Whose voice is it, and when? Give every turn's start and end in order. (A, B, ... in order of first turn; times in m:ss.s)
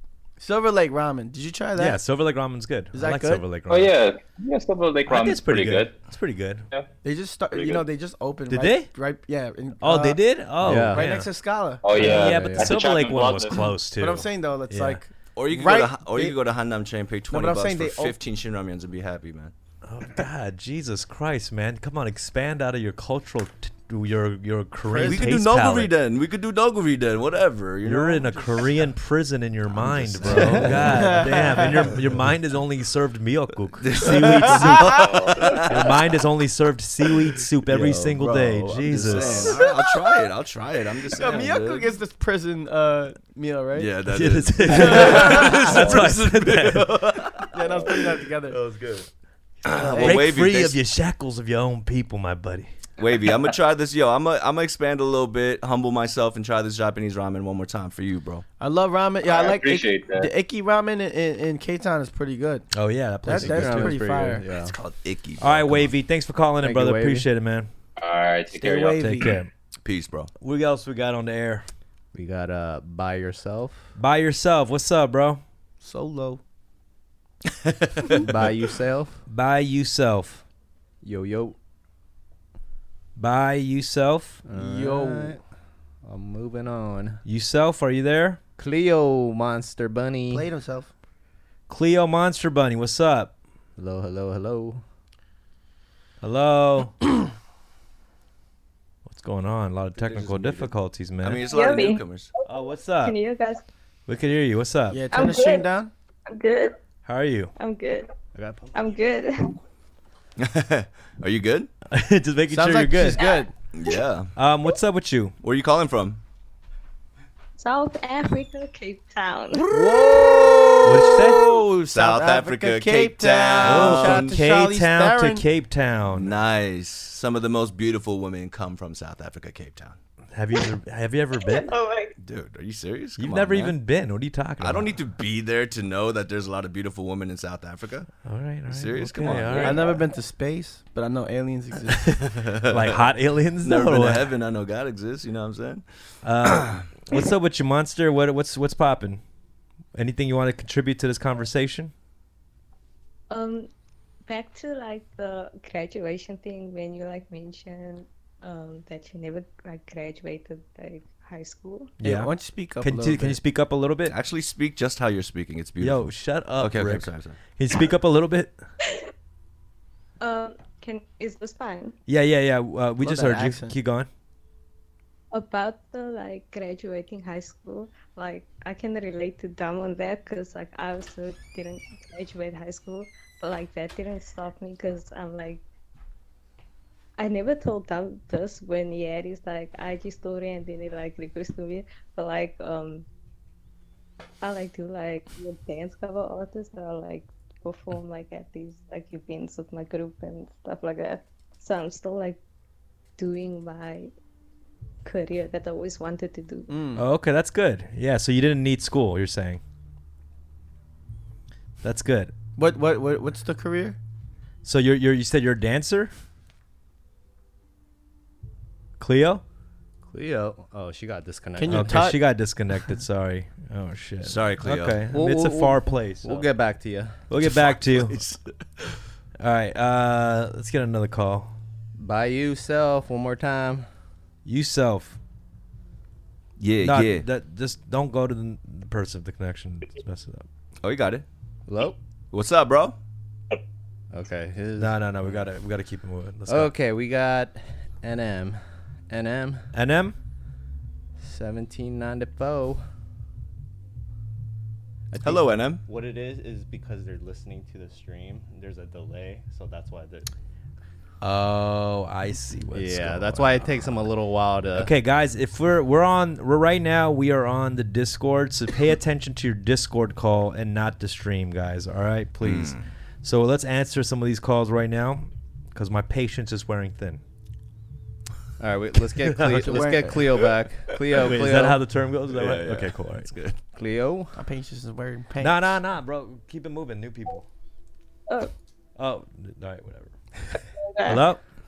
0:00.4-0:02.0 A
0:01.8-0:03.9 B
0:02.9-0:03.4 A
0:03.7-0:06.0 C
0:05.1-0:06.6 B
0:07.0-0:11.8 A
0:07.5-0:07.8 C
0:08.5-0:08.9 B
0:09.8-0:11.3 B
0:10.6-0:11.0 D
0:11.8-0:13.6 C
0:11.9-0:15.0 B
0:12.0-0:12.8 D
0:14.0-0:16.4 A
0:15.3-0:19.5 E
0:17.3-0:18.2 A
0:19.8-0:25.9 B
0:24.9-0:25.2 A
0:25.0-0:28.8 E
0:27.8-0:35.0 B
0:29.7-0:32.2 E
0:30.3-0:30.8 D
0:30.9-0:31.8 A
0:33.8-0:35.9 E
0:34.5-0:35.0 A
0:34.9-0:35.6 C
0:35.7-0:39.6 B
0:37.7-0:41.9 E
0:39.1-0:39.8 A
0:41.1-0:43.9 A
0:43.7-0:49.1 E
0:44.1-0:46.9 B
0:44.6-0:45.6 A
0:47.5-0:48.6 A
0:49.6-0:50.8 E
0:49.8-0:50.2 A
0:50.0-0:52.7 B
0:53.0-0:58.4 E
0:58.6-1:02.7 A
0:59.2-1:00.3 C
1:02.7-1:04.0 B
1:03.2-1:04.4 A
1:03.3-1:04.7 D
1:04.6-1:05.9 E
1:05.4-1:07.7 B
1:06.6-1:07.3 D
1:08.0-1:09.4 C
1:08.5-1:09.3 A
1:09.0-1:09.5 B
1:09.8-1:10.3 E
1:10.4-1:11.6 B
1:12.1-1:13.9 D
1:14.0-1:15.4 B
1:15.8-1:16.4 A
1:17.6-1:18.2 E
1:18.2-1:19.2 D
1:19.3-1:20.4 B
1:21.0-1:21.6 D
1:23.2-1:24.4 B
1:24.4-1:25.4 D
1:24.6-1:25.4 A
1:26.0-1:27.2 D
1:27.2-1:28.4 B
1:28.6-1:30.5 D
1:30.3-1:30.9 A
1:31.7-1:33.3 B
1:33.8-1:34.8 D
1:36.2-1:37.0 B
1:39.1-1:41.4 B
1:40.0-1:42.3 E
1:41.4-1:43.6 F
1:42.5-1:43.2 B
1:44.1-1:45.1 B
1:44.9-1:45.9 A
1:45.1-1:45.7 F
1:46.3-1:46.7 F
1:47.0-1:47.5 B
1:47.6-1:48.1 F
1:48.3-1:48.8 D
1:48.7-1:49.5 F
1:50.4-1:51.7 E
1:51.9-1:53.2 B
1:52.5-1:53.5 A
1:53.2-1:54.0 F
1:53.7-1:54.3 E
1:54.4-1:55.4 B
1:55.4-1:56.2 E
1:57.6-1:59.7 F
1:59.7-2:05.4 A
1:59.9-2:04.3 E
2:00.8-2:01.5 B
2:03.6-2:06.4 B
2:06.1-2:10.0 E
2:10.3-2:11.7 B
2:11.4-2:12.1 F
2:12.2-2:13.7 E
2:13.2-2:14.9 B
2:14.6-2:18.1 E
2:18.2-2:20.0 B
2:18.7-2:20.0 E
2:19.6-2:22.1 A
2:22.3-2:23.0 E
2:22.7-2:24.3 B
2:23.6-2:25.8 E
2:26.2-2:29.2 B
2:26.4-2:27.2 E
2:29.9-2:31.9 B
2:33.3-2:33.7 F
2:34.3-2:41.9 F
2:42.0-2:44.1 B
2:42.0-2:43.4 A
2:44.1-2:47.4 E
2:45.8-2:48.5 B
2:50.2-2:51.9 F
2:52.1-2:54.1 B
2:53.0-2:53.8 A
2:55.3-3:05.6 F
3:07.2-3:13.0 F
3:14.4-3:22.4 F
3:23.2-3:24.1 F
3:25.0-3:26.7 F
3:26.7-3:27.0 A
3:27.0-3:29.6 B
3:31.8-3:32.3 B
3:32.6-3:34.0 A
3:34.6-3:36.1 B
3:39.0-3:39.4 B
3:40.0-3:42.0 D
3:41.6-3:42.2 A
3:41.7-3:46.5 B
3:44.2-3:45.0 E
3:45.1-3:47.2 D
3:47.3-3:48.2 B
3:47.4-3:49.0 E
3:49.4-3:51.5 B
3:52.0-3:53.9 D
3:54.4-3:55.2 B
3:56.6-3:57.2 E
3:56.8-4:00.4 B
4:00.8-4:01.2 E
4:01.7-4:02.0 D
4:02.3-4:03.0 E
4:04.1-4:05.4 D
4:04.8-4:06.7 B
4:06.5-4:09.6 D
4:09.7-4:10.2 B
4:11.2-4:12.8 D
4:15.1-4:20.3 D
4:15.2-4:15.8 E
4:21.2-4:24.1 B
4:22.7-4:24.9 D
4:24.7-4:37.2 B
4:32.4-4:32.9 E
4:38.6-4:41.8 D
4:39.2-4:40.0 B
4:39.5-4:40.2 A
4:41.2-4:41.5 E
4:41.2-4:43.3 B
4:42.3-4:43.6 E
4:43.8-4:44.4 D
4:44.4-4:45.8 A
4:45.4-4:47.4 B
4:49.0-4:50.1 B
4:50.9-4:51.3 F
4:51.1-4:51.4 B